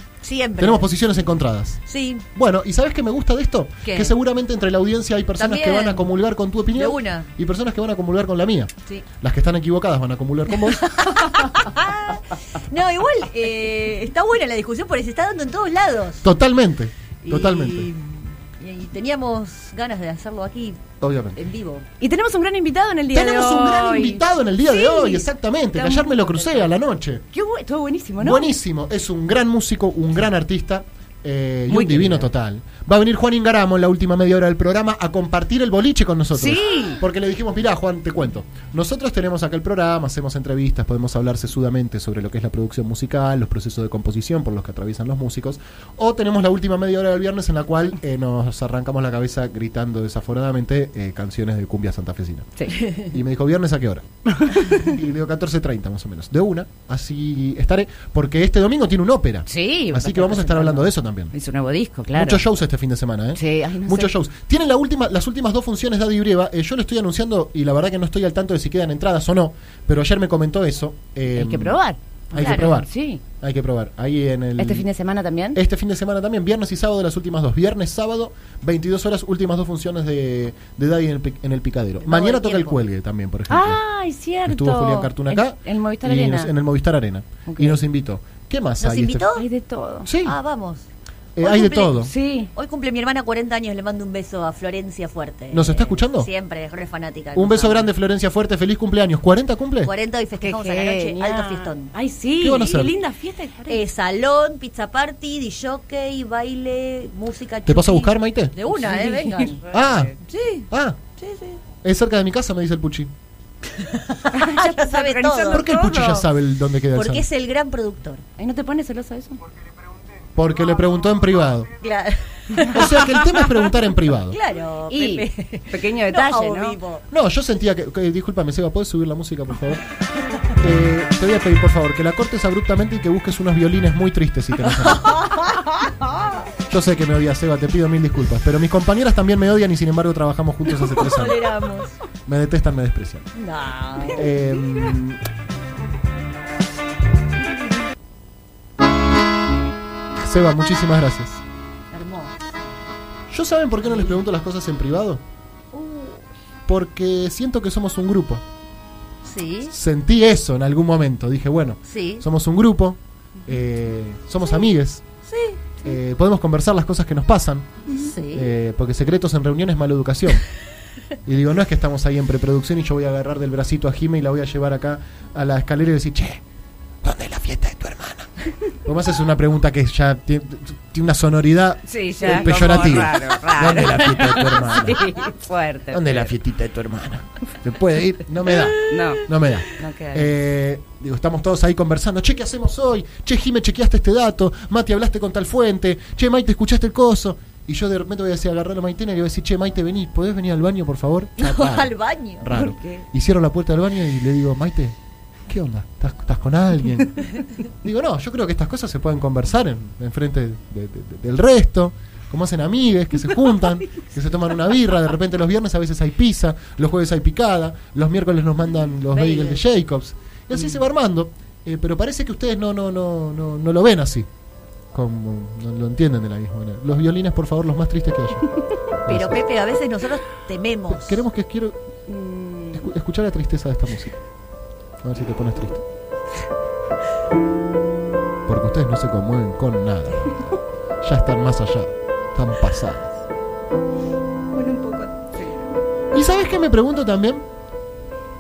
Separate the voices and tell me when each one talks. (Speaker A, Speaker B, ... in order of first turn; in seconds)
Speaker A: 0.2-0.9, 1.9-2.2, 3.8-4.1, 5.4-6.0, 6.7-7.3, 10.8-16.3, 17.2-21.9, 72.3-72.6, 82.0-82.8, 88.8-89.4, 90.2-90.8, 91.4-91.9, 92.5-97.8, 99.8-101.9, 103.7-111.6, 113.8-115.7, 116.9-118.2, 121.8-123.5, 124.2-127.0, 134.8-136.3, 140.9-141.9, 143.3-144.3, 151.9-152.3, 155.7-156.2, 159.2-159.7, 161.9-162.2, 165.3-165.7, 167.9-168.5, 201.4-202.5, 219.1-219.6, 229.1-231.2
Speaker B: 0.6-1.8, 2.3-10.9, 16.2-17.9, 21.0-21.4, 23.1-27.2, 28.2-54.0, 54.6-61.3, 62.1-71.8, 72.3-72.9, 73.4-74.9, 75.5-83.8, 84.5-89.3, 90.0-90.3, 91.3-92.1, 95.5-96.3, 97.3-99.9, 102.4-102.9, 107.7-108.8, 109.7-110.1, 110.7-111.0, 111.8-113.1, 115.5-117.2, 120.3-121.7, 122.7-124.4, 127.1-129.8, 130.6-135.2, 136.7-141.5, 142.2-143.3, 144.1-145.2, 150.2-151.4, 153.3-155.2, 156.7-158.4, 159.7-165.0, 165.8-167.8, 168.3-170.4, 171.2-176.4, 177.0-178.3, 178.8-185.2, 185.9-224.3, 224.9-228.4, 229.0-229.4, 230.9-231.8, 232.7-234.2, 235.0-235.8, 238.5-243.1, 246.1-247.4
Speaker C: 22.0-24.2, 27.3-28.5, 31.7-32.3, 36.3-37.0, 52.6-52.9, 54.3-54.8, 59.5-62.4, 63.4-64.1, 71.3-73.2, 74.6-75.6, 83.5-86.5, 87.5-87.8, 89.3-90.1, 91.9-92.5, 100.4-103.8, 108.7-110.1, 114.3-116.3, 118.4-119.4, 124.9-126.8, 144.7-144.9, 181.9-186.3, 188.7-190.3, 202.5-203.0, 232.1-232.8, 244.5-245.7